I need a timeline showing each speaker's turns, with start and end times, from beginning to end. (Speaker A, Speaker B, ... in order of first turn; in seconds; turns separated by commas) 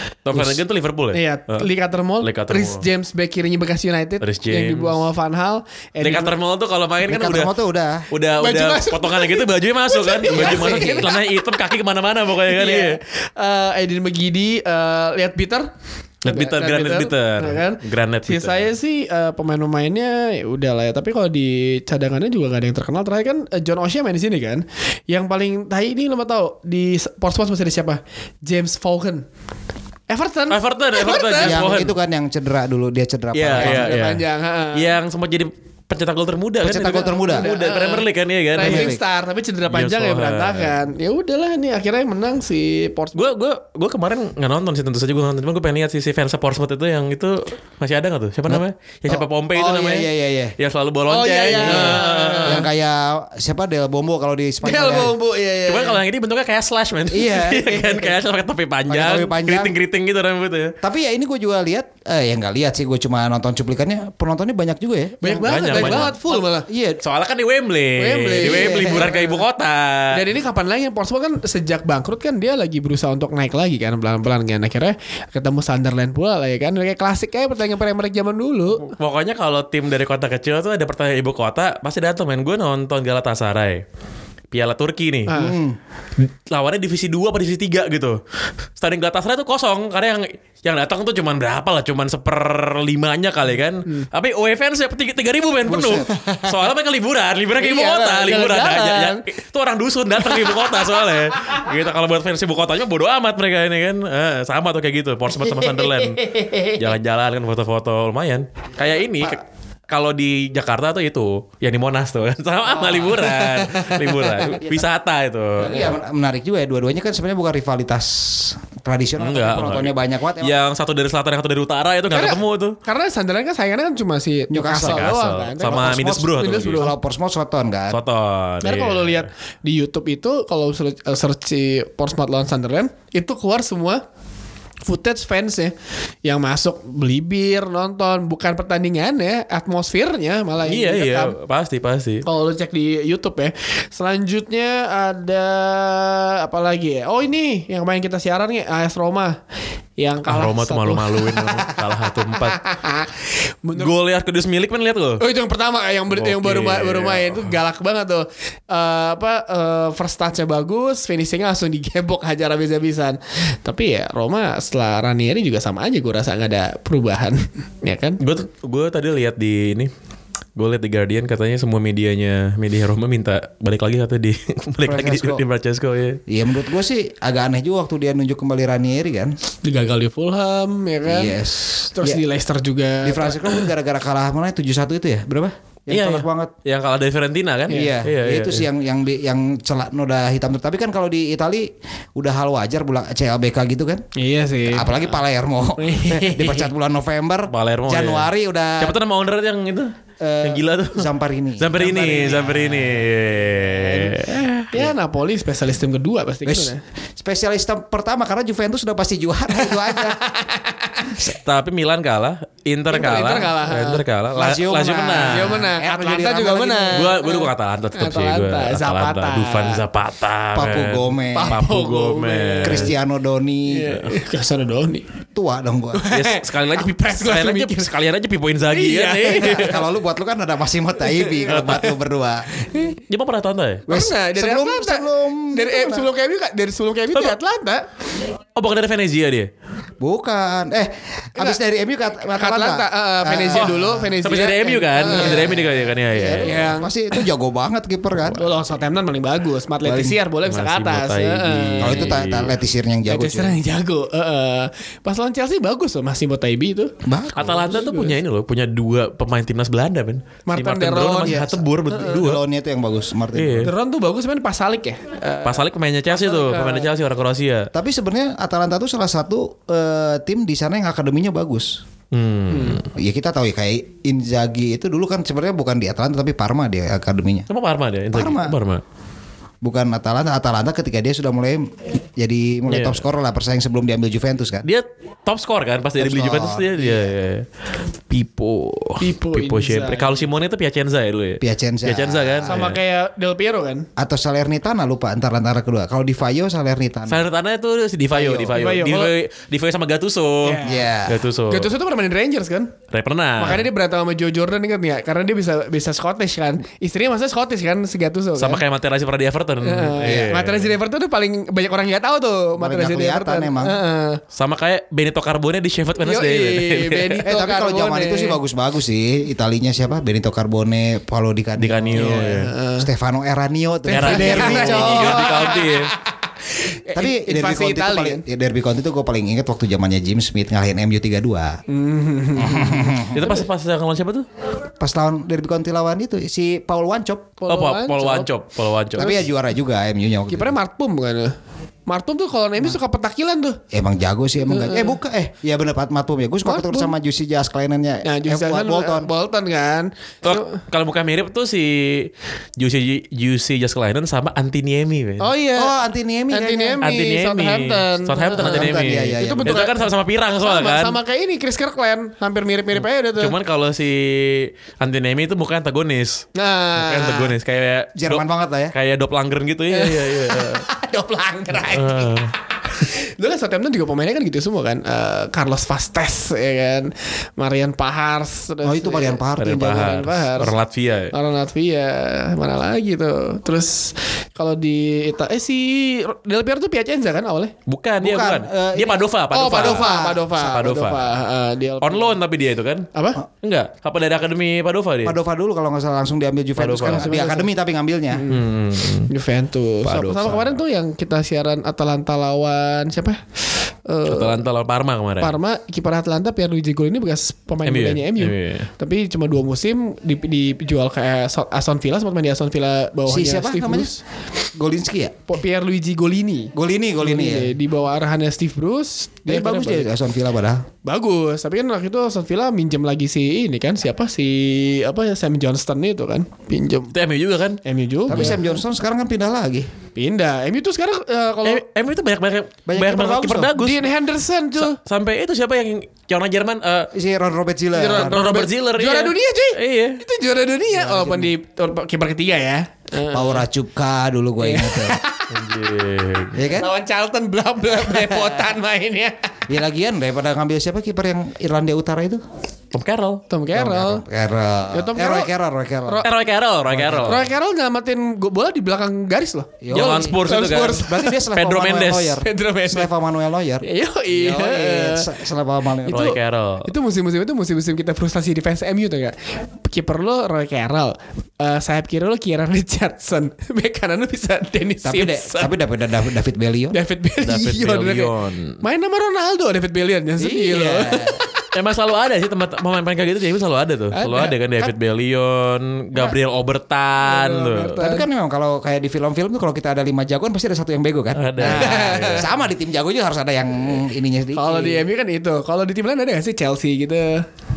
Speaker A: 0.2-1.7, Speaker B: 1.1-6.3, Speaker A: 2.2-2.9, Speaker A: 4.2-5.0, Speaker A: 6.0-7.5, Speaker C: 7.0-8.1, Speaker A: 8.1-13.0, Speaker B: 8.4-11.3, Speaker B: 12.5-15.7, Speaker A: 16.2-18.7, Speaker B: 16.3-29.3, Speaker B: 30.1-31.7, Speaker A: 30.5-32.0, Speaker C: 31.4-34.0, Speaker A: 33.3-39.0, Speaker B: 33.5-35.0, Speaker C: 36.6-37.5, Speaker B: 36.8-43.2, Speaker C: 38.6-39.0, Speaker A: 39.7-40.8, Speaker A: 43.1-52.7, Speaker C: 48.5-50.5, Speaker B: 51.1-52.7, Speaker C: 51.5-55.1, Speaker B: 54.6-56.0, Speaker A: 55.7-60.7, Speaker C: 57.1-58.1, Speaker C: 58.9-59.7, Speaker C: 60.8-67.0, Speaker B: 65.2-66.7, Speaker A: 65.4-66.2, Speaker A: 67.0-70.2, Speaker B: 68.0-69.4, Speaker C: 68.4-69.2, Speaker B: 70.1-78.9, Speaker A: 78.9-83.8, Speaker A: 84.5-85.4, Speaker B: 85.3-85.6, Speaker C: 85.3-85.8, Speaker A: 86.2-88.2, Speaker A: 88.8-115.9, Speaker C: 95.7-96.1, Speaker B: 97.6-99.2, Speaker B: 105.4-106.9, Speaker C: 112.8-113.1, Speaker B: 112.9-114.5, Speaker C: 114.5-114.8, Speaker C: 115.6-120.5, Speaker A: 119.2-122.8, Speaker B: 122.1-126.9, Speaker C: 124.5-128.0, Speaker A: 124.8-126.9, Speaker A: 127.9-129.3, Speaker B: 128.6-134.0, Speaker B: 134.8-141.4, Speaker A: 140.6-142.2, Speaker B: 142.2-149.4, Speaker B: 150.0-153.9, Speaker A: 150.3-152.6, Speaker A: 153.8-155.2, Speaker B: 155.2-168.2, Speaker A: 156.1-157.6, Speaker A: 168.2-169.9, Speaker A: 170.6-176.2, Speaker C: 174.8-175.4, Speaker C: 176.3-179.3, Speaker B: 179.6-183.7, Speaker C: 181.1-182.2, Speaker C: 183.0-186.5, Speaker A: 185.9-188.7, Speaker B: 187.7-188.0, Speaker C: 187.7-194.0, Speaker B: 194.2-195.0, Speaker C: 194.7-199.0, Speaker B: 195.8-196.7, Speaker A: 197.5-198.3, Speaker A: 198.8-199.9, Speaker C: 200.2-203.0, Speaker A: 200.4-204.9, Speaker B: 201.8-202.5, Speaker B: 203.7-206.8, Speaker C: 206.4-210.2, Speaker B: 209.6-211.2, Speaker A: 211.3-215.7, Speaker B: 212.9-214.0, Speaker C: 214.3-217.1, Speaker B: 215.2-219.8, Speaker A: 216.9-222.9, Speaker C: 220.6-221.6, Speaker B: 221.3-222.9, Speaker C: 222.6-224.0, Speaker B: 223.7-225.0, Speaker C: 225.3-226.1, Speaker B: 225.9-227.9, Speaker A: 226.1-229.8, Speaker B: 228.7-229.8, Speaker C: 229.3-232.5, Speaker B: 231.1-231.8, Speaker A: 231.5-231.9, Speaker B: 232.5-233.0, Speaker A: 233.1-233.8, Speaker C: 233.9-236.1, Speaker B: 233.9-237.9, Speaker A: 238.6-239.5, Speaker C: 240.0-244.2, Speaker B: 242.3-245.6, Speaker A: 244.2-246.7, Speaker C: 245.1-248.5, Speaker B: 246.4-247.2, Speaker B: 248.3-252.2, Speaker C: 249.8-250.2, Speaker A: 250.4-252.6, Speaker C: 251.8-253.6, Speaker B: 253.1-258.1, Speaker C: 257.0-257.8, Speaker A: 257.4-262.4, Speaker B: 260.5-261.4, Speaker C: 261.2-263.7, Speaker A: 263.3-263.7, Speaker B: 263.6-266.9, Speaker A: 265.4-267.7, Speaker C: 267.7-271.8, Speaker A: 272.1-272.9, Speaker B: 272.5-272.8, Speaker C: 272.9-277.5, Speaker A: 277.5-278.8, Speaker C: 278.1-278.6, Speaker C: 279.6-284.7, Speaker A: 282.7-283.0, Speaker A: 284.6-287.5, Speaker C: 286.0-287.1, Speaker A: 288.1-292.8, Speaker B: 289.0-290.2, Speaker C: 291.4-292.6, Speaker B: 292.5-293.9, Speaker C: 294.0-297.2, Speaker A: 297.1-301.7, Speaker C: 298.1-298.6, Speaker B: 298.5-299.1, Speaker B: 300.4-300.9, Speaker C: 300.6-301.2, Speaker B: 301.5-302.7, Speaker A: 302.9-303.7, Speaker B: 303.4-308.6, Speaker A: 308.4-310.8, Speaker B: 309.6-314.2, Speaker C: 310.0-310.3, Speaker C: 312.6-313.8, Speaker A: 314.3-317.2, Speaker B: 316.0-318.4, Speaker C: 317.2-325.5, Speaker A: 321.6-322.5, Speaker B: 321.9-322.9, Speaker B: 323.9-328.2, Speaker A: 323.9-325.9, Speaker C: 326.9-331.6, Speaker B: 331.7-333.4, Speaker C: 332.4-333.4, Speaker A: 333.1-334.3, Speaker C: 334.8-337.4, Speaker B: 337.4-338.3, Speaker A: 337.5-339.2, Speaker C: 338.9-340.6, Speaker B: 340.3-341.4, Speaker B: 341.9-343.6, Speaker C: 343.7-349.1, Speaker B: 344.5-345.0, Speaker B: 346.4-346.9, Speaker B: 348.0-350.6, Speaker A: 350.2-355.3, Speaker B: 355.2-355.8, Speaker C: 355.6-356.8, Speaker B: 356.3-359.9, Speaker A: 356.8-361.0, Speaker C: 358.4-359.6, Speaker B: 360.4-363.3, Speaker A: 362.8-370.6, Speaker B: 366.4-367.3, Speaker C: 368.0-368.8, Speaker B: 369.7-380.5, Speaker A: 371.6-372.3, Speaker C: 378.6-380.1, Speaker A: 379.4-381.1, Speaker B: 381.1-387.5, Speaker A: 387.7-391.0, Speaker C: 388.0-390.2, Speaker B: 389.3-392.2, Speaker A: 391.8-392.9, Speaker B: 392.9-393.2, Speaker A: 393.4-395.2, Speaker C: 395.1-398.2, Speaker A: 396.6-397.1, Speaker B: 396.8-397.5, Speaker B: 398.1-398.5, Speaker A: 398.3-399.1, Speaker B: 399.1-403.2, Speaker A: 399.9-400.5, Speaker B: 403.9-404.4, Speaker A: 404.1-405.4, Speaker B: 405.2-414.0, Speaker A: 407.6-408.7, Speaker C: 413.1-413.9, Speaker C: 414.6-415.2, Speaker B: 415.3-419.9, Speaker C: 416.5-417.6, Speaker C: 419.3-420.7, Speaker B: 420.9-426.9, Speaker A: 426.9-427.6, Speaker B: 427.6-428.4, Speaker C: 428.1-429.7, Speaker B: 429.9-431.6, Speaker A: 431.4-433.9, Speaker C: 432.7-433.5, Speaker B: 433.6-434.8, Speaker A: 434.6-436.9, Speaker C: 436.9-438.2, Speaker B: 437.8-443.4, Speaker A: 437.9-440.0, Speaker C: 440.9-441.1, Speaker C: 443.1-445.0, Speaker B: 444.4-445.4, Speaker A: 445.3-446.4, Speaker C: 446.4-446.7, Speaker B: 446.6-449.3, Speaker C: 447.9-448.4, Speaker C: 449.5-452.2, Speaker A: 452.7-453.2, Speaker B: 453.3-454.0, Speaker C: 453.5-456.1, Speaker B: 454.7-455.3, Speaker B: 455.9-456.1, Speaker A: 456.0-457.3, Speaker C: 456.7-457.3, Speaker B: 457.1-461.2, Speaker C: 459.6-466.2, Speaker A: 459.7-462.2, Speaker B: 462.2-462.9, Speaker B: 463.6-465.1, Speaker B: 465.9-475.6, Speaker A: 465.9-466.7, Speaker C: 474.8-476.8, Speaker B: 476.7-481.5, Speaker A: 477.2-478.6, Speaker C: 480.2-481.2, Speaker A: 481.5-487.8, Speaker B: 483.9-484.7, Speaker B: 487.0-488.1, Speaker C: 487.8-494.9, Speaker A: 491.1-492.4, Speaker B: 491.4-492.3, Speaker B: 494.3-497.3